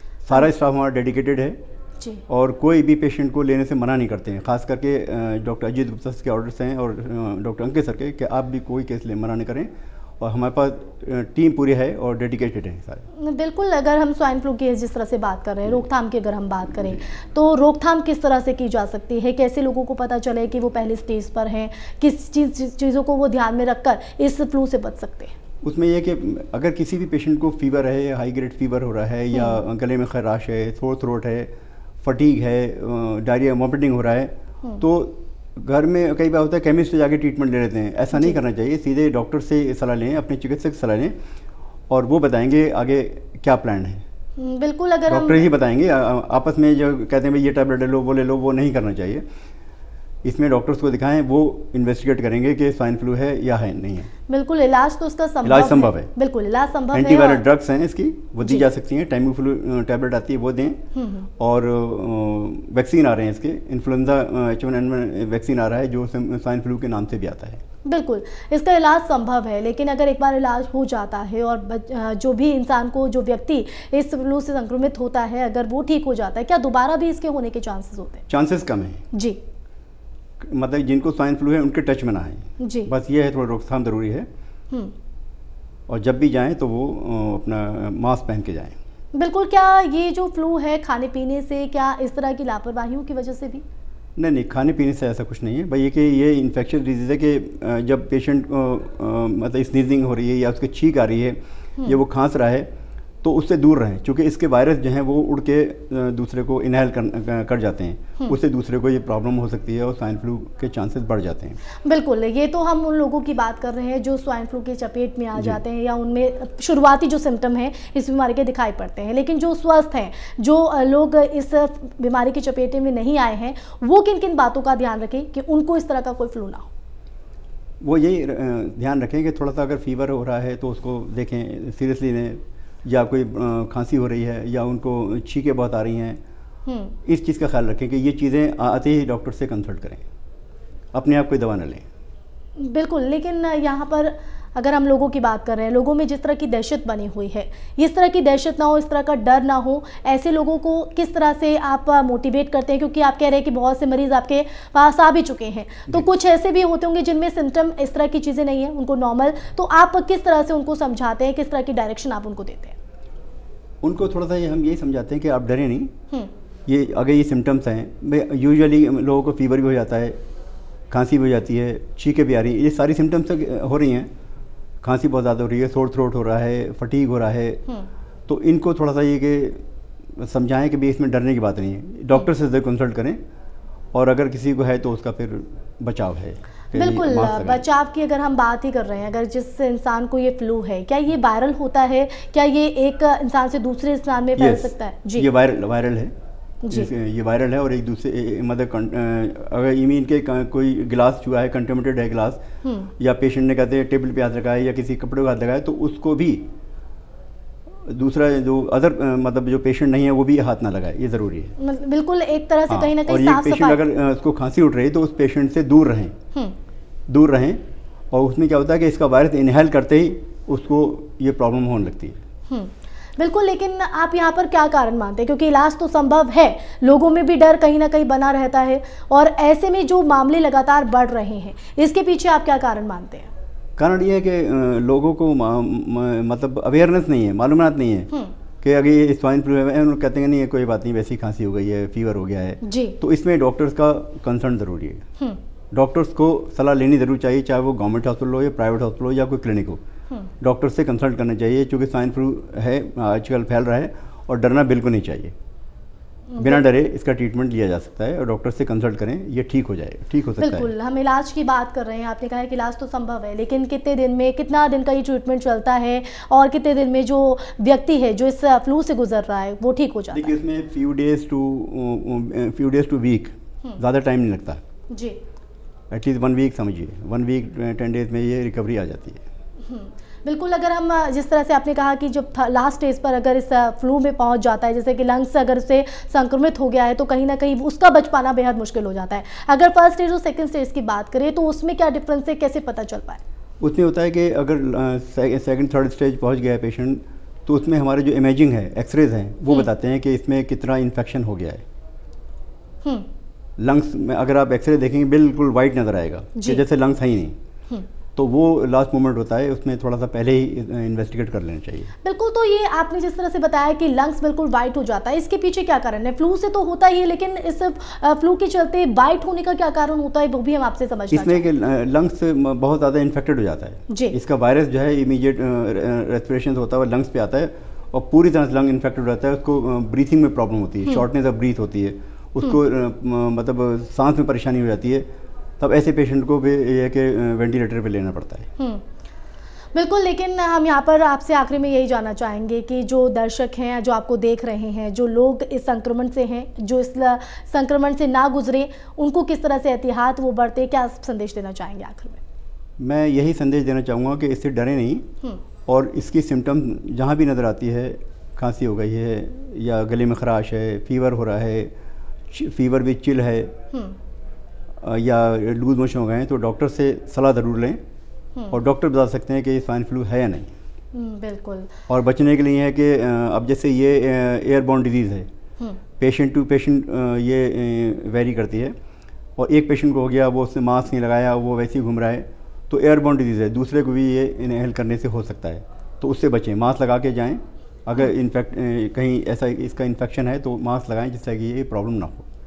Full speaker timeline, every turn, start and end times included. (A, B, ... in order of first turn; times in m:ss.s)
0:00.2-0:01.6 A
0:02.3-0:13.1 A
0:13.2-0:25.3 B
0:25.6-0:41.1 A
0:29.3-0:29.6 B
0:41.9-0:44.0 A
0:44.4-0:45.5 B
0:45.1-0:49.2 A
0:50.2-0:54.1 A
0:54.3-0:57.4 B
0:55.4-0:56.1 A
0:56.9-1:00.8 A
0:58.4-0:58.7 B
1:01.0-1:01.3 B
1:01.4-1:07.6 A
1:07.9-1:18.2 B
1:18.3-1:19.0 A
1:19.1-1:19.4 B
1:20.4-1:24.3 A
1:22.6-1:22.9 B
1:25.9-1:28.8 A
1:29.1-1:33.6 B
1:34.2-1:42.7 A
1:43.2-1:51.6 A
1:51.8-2:06.7 B
1:55.4-1:55.6 A
2:07.8-2:16.2 A
2:16.7-2:17.0 B
2:17.0-2:20.0 A
2:20.9-2:21.9 A
2:22.6-2:42.8 B
2:43.8-2:45.9 A
2:46.7-2:50.2 A
2:50.9-2:54.1 A
2:54.8-2:57.6 A
2:58.3-2:59.6 A
3:00.2-3:03.2 A
3:03.9-3:07.6 A
3:06.7-3:15.3 B
3:14.4-3:16.1 A
3:16.6-3:16.9 B
3:16.7-3:22.4 A
3:22.6-3:22.9 B
3:23.0-3:26.5 A
3:27.8-3:31.5 A
3:31.6-3:33.8 B
3:32.7-3:36.2 A
3:37.1-3:42.2 A
3:42.5-3:53.3 B
3:53.8-3:58.1 A
3:58.6-4:05.0 A
4:02.6-4:03.0 B
4:05.7-4:09.8 A
4:10.4-4:15.4 A
4:16.3-4:16.6 B
4:16.4-4:20.7 A
4:20.4-4:30.4 B
4:30.1-4:34.6 A
4:34.9-4:35.2 B
4:35.9-4:39.2 A
4:39.6-4:53.2 B
4:53.6-5:01.6 A
5:03.6-5:07.4 A
5:06.4-5:06.6 B
5:08.2-5:11.9 A
5:12.0-5:21.5 B
5:21.1-5:35.1 A
5:23.9-5:24.2 B
5:35.6-5:38.5 A
5:38.6-5:38.8 B
5:39.7-5:52.2 B
5:52.8-5:55.1 A
5:55.7-6:01.7 A
6:02.3-6:03.6 A
6:03.7-6:04.0 B
6:04.8-6:07.8 A
6:08.5-6:10.5 A
6:10.9-6:11.7 B
6:11.9-6:15.3 A
6:16.0-6:18.8 A
6:19.4-6:32.3 A